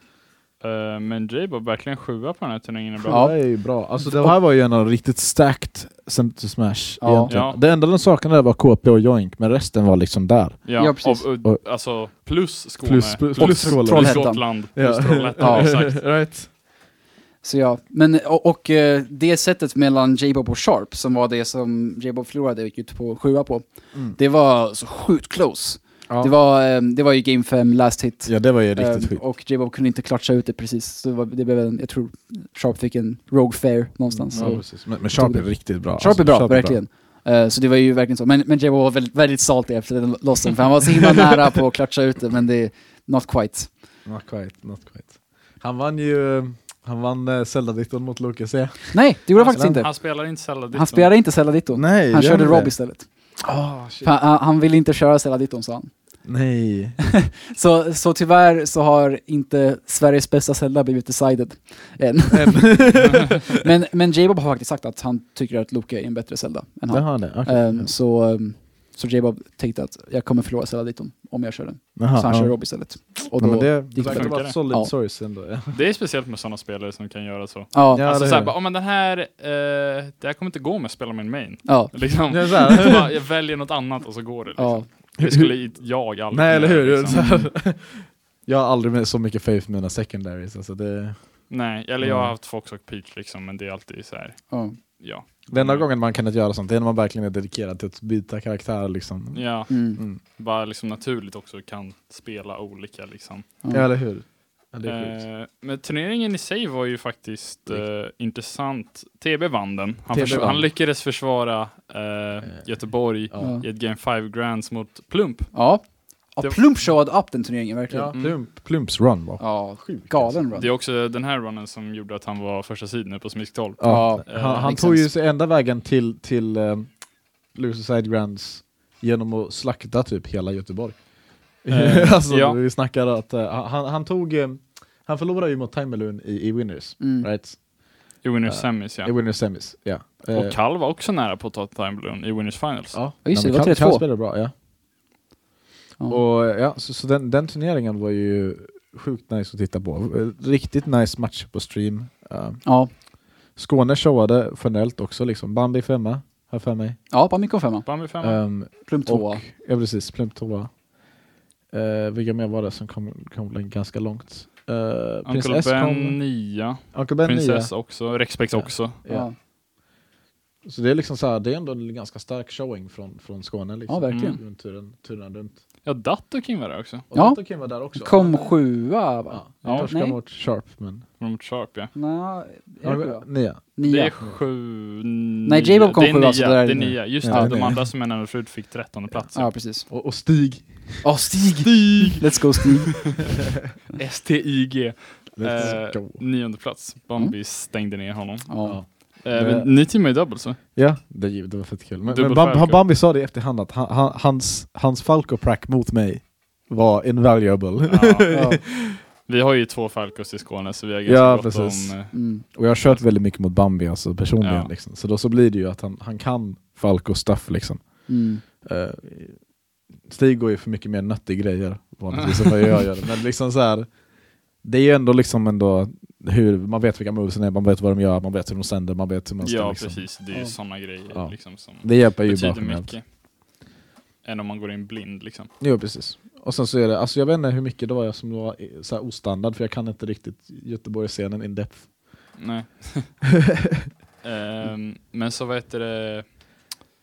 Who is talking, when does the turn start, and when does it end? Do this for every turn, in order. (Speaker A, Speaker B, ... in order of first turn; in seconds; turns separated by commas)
Speaker A: 0.6-3.3, Speaker B: 3.0-11.6, Speaker C: 3.1-4.3, Speaker C: 7.0-7.4, Speaker A: 7.3-7.6, Speaker A: 10.6-16.0, Speaker C: 10.8-11.3, Speaker B: 12.8-16.5, Speaker C: 13.4-14.5, Speaker C: 15.4-15.9, Speaker C: 17.4-43.8, Speaker B: 26.1-26.3, Speaker B: 28.2-29.2, Speaker B: 34.1-36.8, Speaker A: 34.3-34.6, Speaker B: 44.0-49.8, Speaker C: 48.9-56.3, Speaker A: 49.3-51.1, Speaker B: 51.7-54.1, Speaker B: 56.2-57.0, Speaker C: 57.2-74.9, Speaker B: 62.3-63.5, Speaker B: 66.9-67.9, Speaker B: 72.0-75.8, Speaker A: 74.0-74.6, Speaker A: 75.7-87.3, Speaker C: 77.7-78.0, Speaker B: 77.9-78.5, Speaker C: 81.7-82.7, Speaker B: 82.3-83.1, Speaker C: 84.6-84.8, Speaker B: 85.2-92.3, Speaker C: 87.1-87.5, Speaker A: 91.5-95.9, Speaker C: 94.5-94.8, Speaker B: 95.5-100.2, Speaker A: 99.3-103.6, Speaker C: 99.7-100.0, Speaker C: 103.6-103.9, Speaker B: 103.7-105.2, Speaker A: 104.8-116.8, Speaker B: 110.1-110.7, Speaker C: 113.4-113.7, Speaker C: 115.5-118.4, Speaker B: 117.9-120.4, Speaker A: 118.1-118.4, Speaker C: 119.4-120.7, Speaker A: 120.5-124.8, Speaker B: 123.8-140.6, Speaker C: 123.8-125.1, Speaker A: 131.7-132.6, Speaker C: 137.0-137.3, Speaker A: 138.2-139.2, Speaker A: 140.3-143.0, Speaker B: 142.9-144.5, Speaker C: 143.2-144.1, Speaker B: 146.1-157.0, Speaker C: 152.6-152.9, Speaker C: 157.1-158.0, Speaker A: 157.8-158.4, Speaker B: 158.2-169.3, Speaker C: 158.7-159.4, Speaker A: 165.2-169.0, Speaker C: 169.1-169.3, Speaker B: 170.6-175.6, Speaker C: 173.9-174.4, Speaker A: 174.1-174.4, Speaker A: 175.8-177.1, Speaker B: 177.1-181.1, Speaker C: 177.1-180.2, Speaker A: 179.6-179.9, Speaker A: 181.2-181.9, Speaker C: 181.9-184.2, Speaker B: 182.8-184.3, Speaker A: 183.8-189.6, Speaker C: 185.4-187.8, Speaker B: 187.2-187.8, Speaker C: 189.3-189.9, Speaker B: 189.9-191.1, Speaker C: 191.0-193.2, Speaker A: 191.6-192.9, Speaker A: 193.9-200.6, Speaker B: 195.3-196.2, Speaker C: 198.5-198.8, Speaker B: 198.6-209.0, Speaker A: 202.0-202.8, Speaker A: 207.9-213.1, Speaker C: 208.3-208.6, Speaker B: 211.1-230.1, Speaker C: 212.1-212.4, Speaker A: 214.4-214.7, Speaker C: 218.1-218.4, Speaker A: 222.1-222.8, Speaker A: 229.4-233.1, Speaker B: 230.8-233.0, Speaker A: 234.2-235.5, Speaker B: 235.6-242.3, Speaker A: 242.3-243.2, Speaker A: 244.2-246.3